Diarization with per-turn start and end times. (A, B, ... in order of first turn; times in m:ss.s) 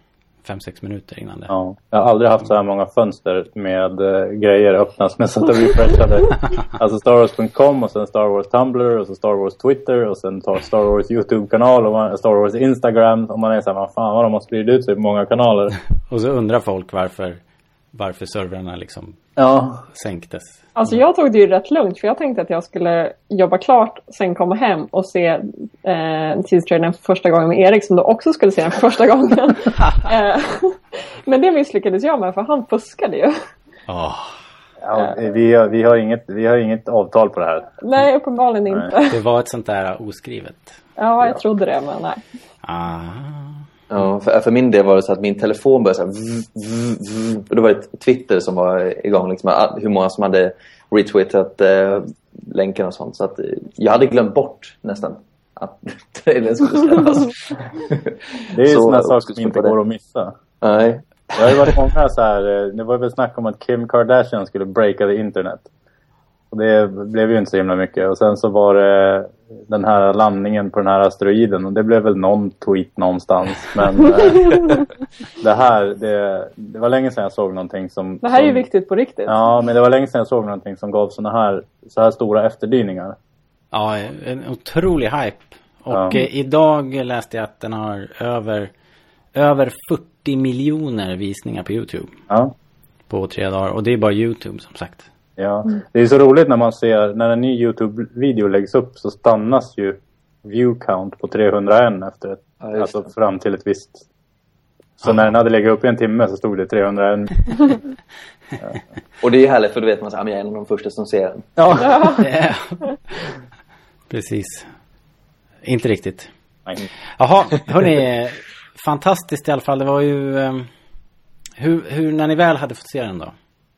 0:00.4-0:01.5 A
0:01.5-0:15.8 B
0:16.1-0:17.4 A
0:17.9-0:19.2 A
0:19.4-0:19.8 B
0:19.9-0:20.6 A
0:20.7-0:33.4 C
0:33.9-0:34.4 A
0:34.8-0:37.7 B
0:37.8-0:39.2 C
0:39.1-0:40.8 A
0:41.0-0:42.2 C
0:42.6-0:43.6 A
0:43.9-0:59.7 D
0:58.5-1:00.3 B
1:00.6-1:01.7 D
1:01.4-1:05.7 B
1:06.5-1:14.8 B
1:14.1-1:14.8 C
1:15.4-1:18.6 B
1:18.2-1:19.4 C
1:19.3-1:23.2 B
1:23.7-1:28.7 A
1:29.3-1:32.1 A
1:33.1-1:35.1 A
1:35.4-1:44.0 B
1:42.6-1:43.0 D
1:45.0-1:47.8 B
1:45.0-1:45.3 A
1:49.2-1:51.8 D
1:51.6-1:52.2 B
1:51.8-1:52.2 C
1:52.1-1:53.1 A
1:54.1-1:54.7 A
1:55.6-1:56.3 A
1:57.2-2:00.7 A
2:01.6-2:03.3 A